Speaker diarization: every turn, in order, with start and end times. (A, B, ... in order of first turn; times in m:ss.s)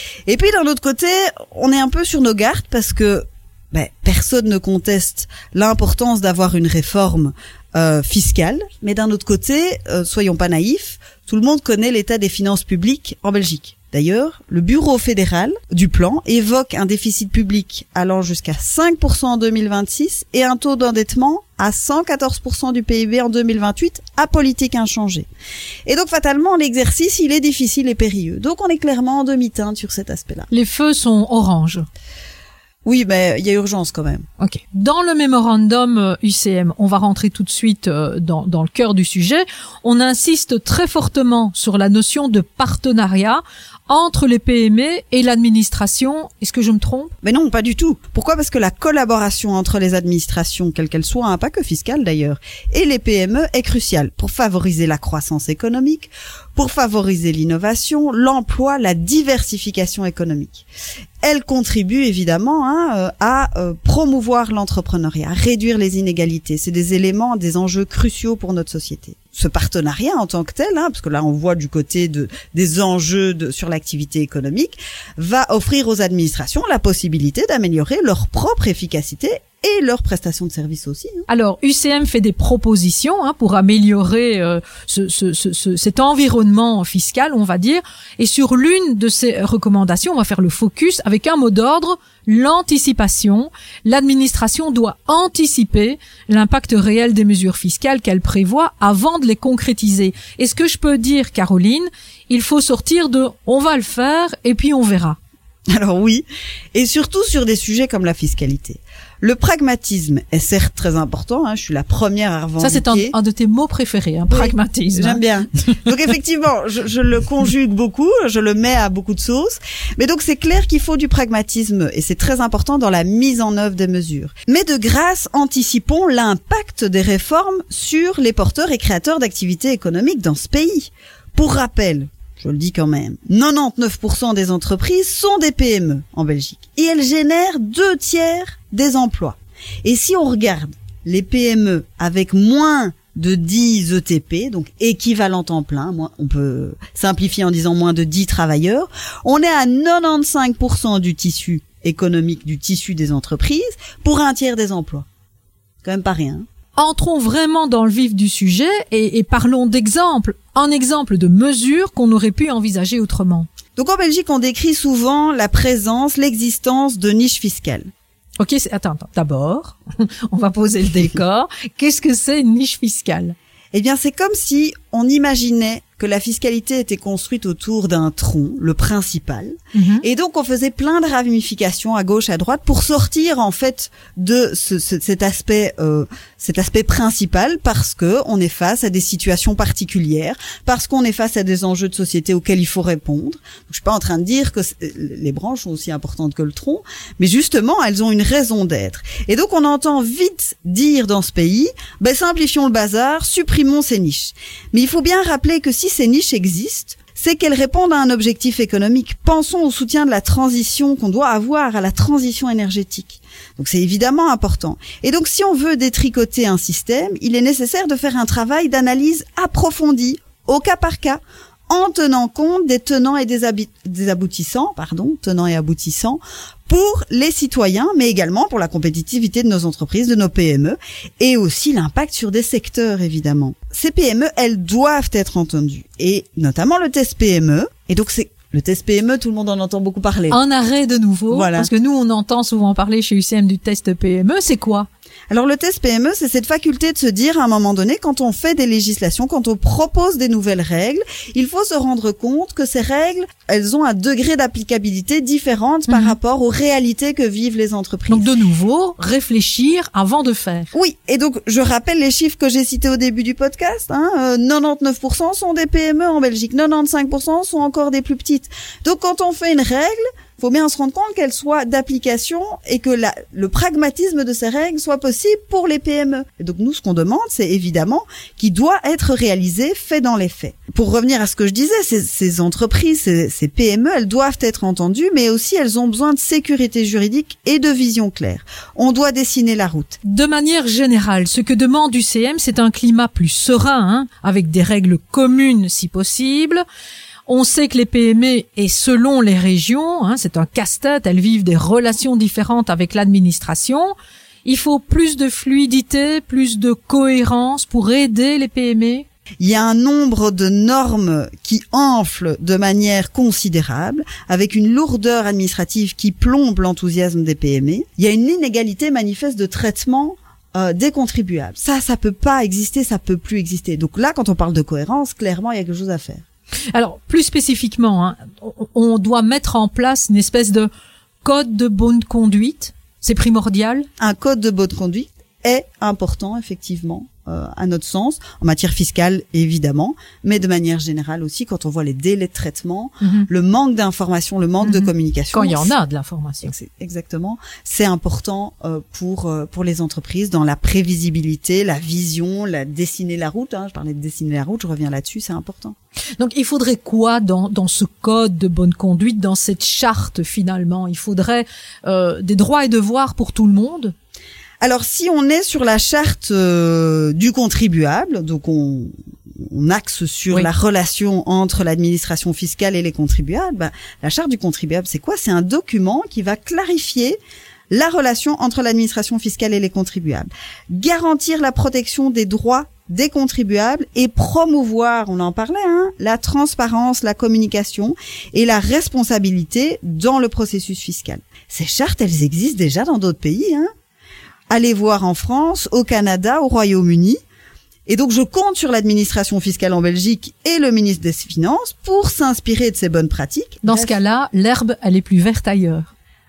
0:00.3-0:25.3 A
0:25.8-0:30.5 A
0:30.5-0:31.8 B
0:32.8-0:34.2 A
0:34.4-0:47.1 B
0:47.2-1:00.6 A
1:01.2-1:21.2 A
1:21.3-1:45.2 B
1:45.7-1:53.1 A
1:52.6-1:55.2 B
1:54.3-2:35.1 A
2:35.8-2:36.4 A
2:36.8-2:43.5 B
2:43.8-2:47.9 A
2:48.4-2:53.3 B
2:53.7-4:00.4 A
2:59.7-3:00.0 B
4:00.3-4:04.9 B
4:01.3-4:01.7 A
4:05.3-4:18.3 A
4:15.9-4:16.2 B
4:18.1-4:20.7 B
4:20.7-4:50.0 A
4:50.0-4:56.6 B
4:57.3-5:03.9 B
5:04.4-5:09.0 B
5:09.4-5:26.2 A
5:26.7-5:30.7 B
5:31.2-5:33.9 B
5:34.0-5:45.7 A
5:43.0-5:43.3 B
5:44.6-5:46.5 B
5:46.4-5:55.7 A
5:56.2-6:03.9 B
6:04.6-6:08.9 A
6:09.4-6:17.2 A
6:17.7-6:33.7 A
6:34.5-6:37.2 A
6:37.9-6:43.9 A
6:43.6-6:45.9 B